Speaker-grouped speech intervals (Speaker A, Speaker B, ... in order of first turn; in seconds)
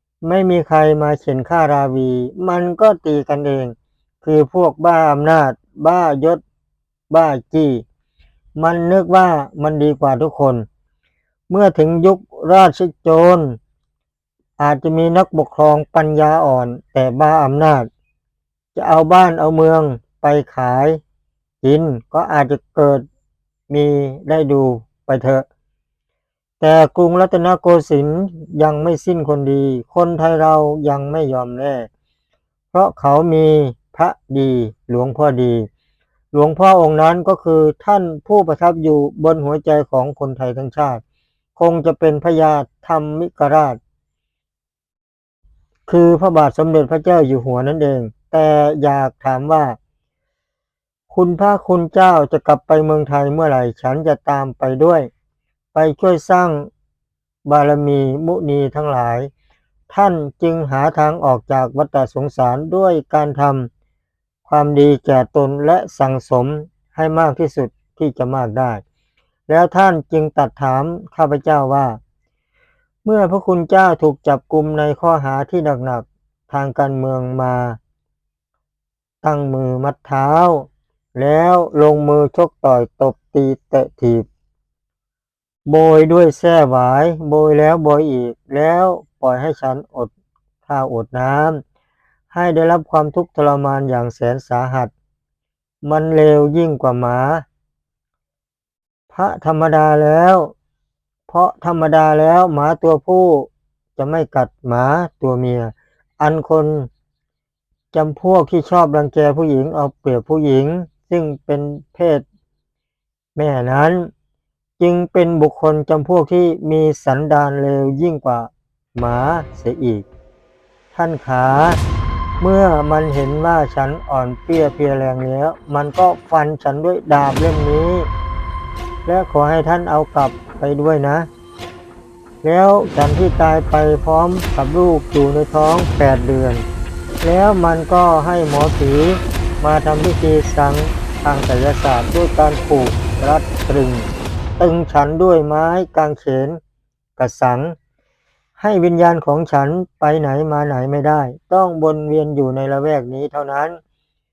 Speaker A: 0.2-6.4, 7.1-7.8, 8.6-10.7, 11.5-13.6, 14.6-17.9, 18.8-21.0, 21.6-23.1, 23.7-25.4, 26.6-31.9, 32.7-35.7, 36.3-41.0, 41.6-43.8, 45.9-49.8, 51.1-55.1, 55.7-56.7, 57.5-59.3, 59.9-63.7, 64.5-68.8, 69.5-72.0, 73.0-77.8, 79.2-84.3, 85.7-90.1, 90.7-91.6, 92.3-94.9, 95.8-97.5, 99.1-100.5, 101.3-106.9, 107.9-112.2, 113.4-114.1, 114.8-120.1, 120.9-121.8, 122.4-128.1, 129.1-131.3, 132.4-136.7, 137.2-144.1, 144.6-146.6, 147.2-147.8, 148.6-153.8